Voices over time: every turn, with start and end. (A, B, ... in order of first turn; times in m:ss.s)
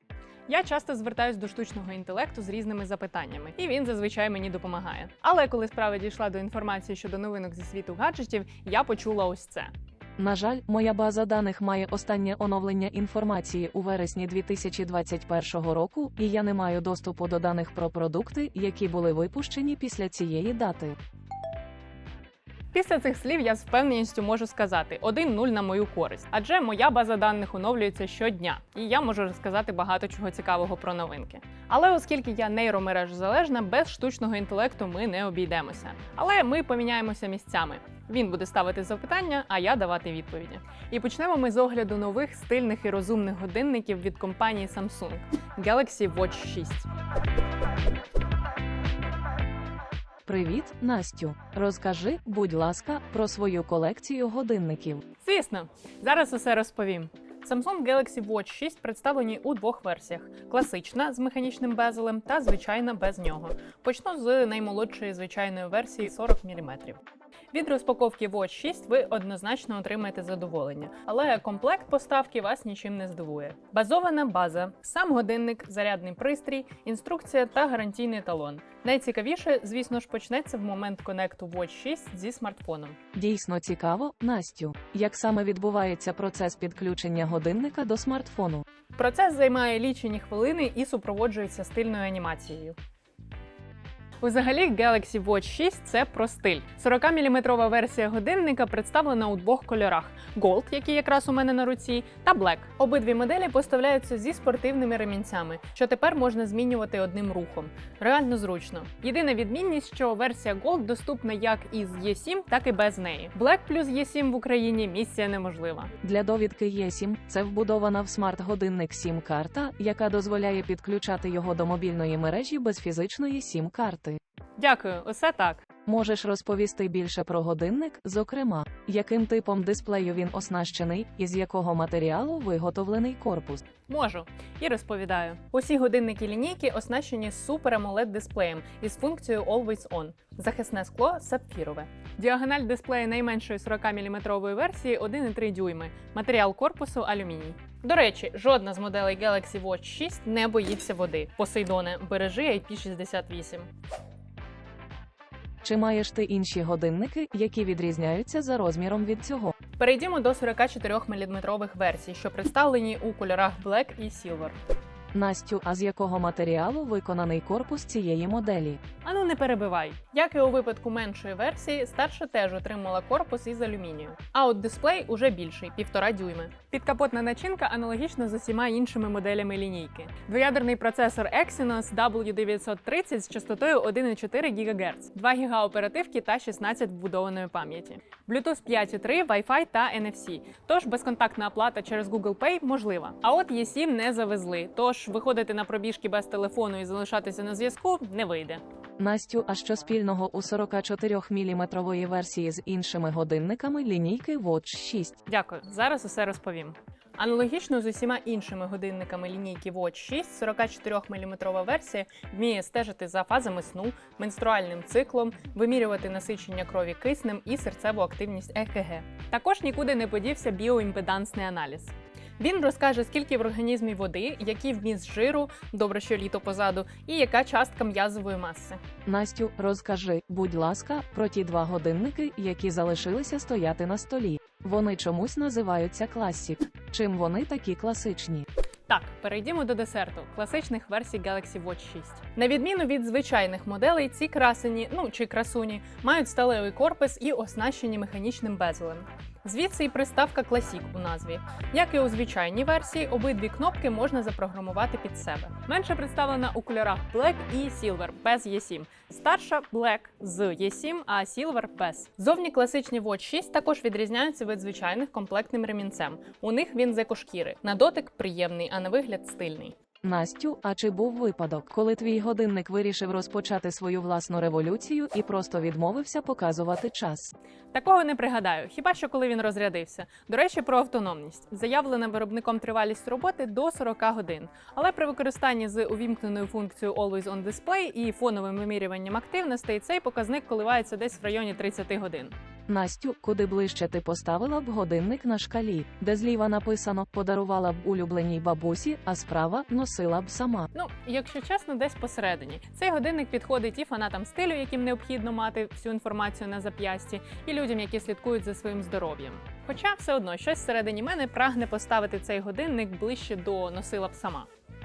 0:00.5-0:09.7 A
0:10.2-0:21.0 B
0:22.7-0:46.9 A
0:50.3-0:55.0 B
0:55.2-1:07.0 A
1:07.5-1:23.0 A
1:23.2-1:28.6 B
1:29.0-1:32.8 A
1:34.2-1:55.9 A
1:56.0-2:04.2 B
2:04.6-2:05.6 A
2:05.9-2:13.6 B
2:13.9-2:33.7 A
2:35.6-2:39.6 B
2:39.8-2:44.6 A
2:45.1-2:48.8 B
2:49.0-3:18.6 A
3:19.0-3:25.2 B
3:25.3-3:48.8 A
3:49.1-3:58.5 B
3:58.9-4:29.7 A
4:30.0-4:37.3 B
4:37.7-4:52.3 A
4:52.7-5:00.7 B
5:00.7-5:14.5 A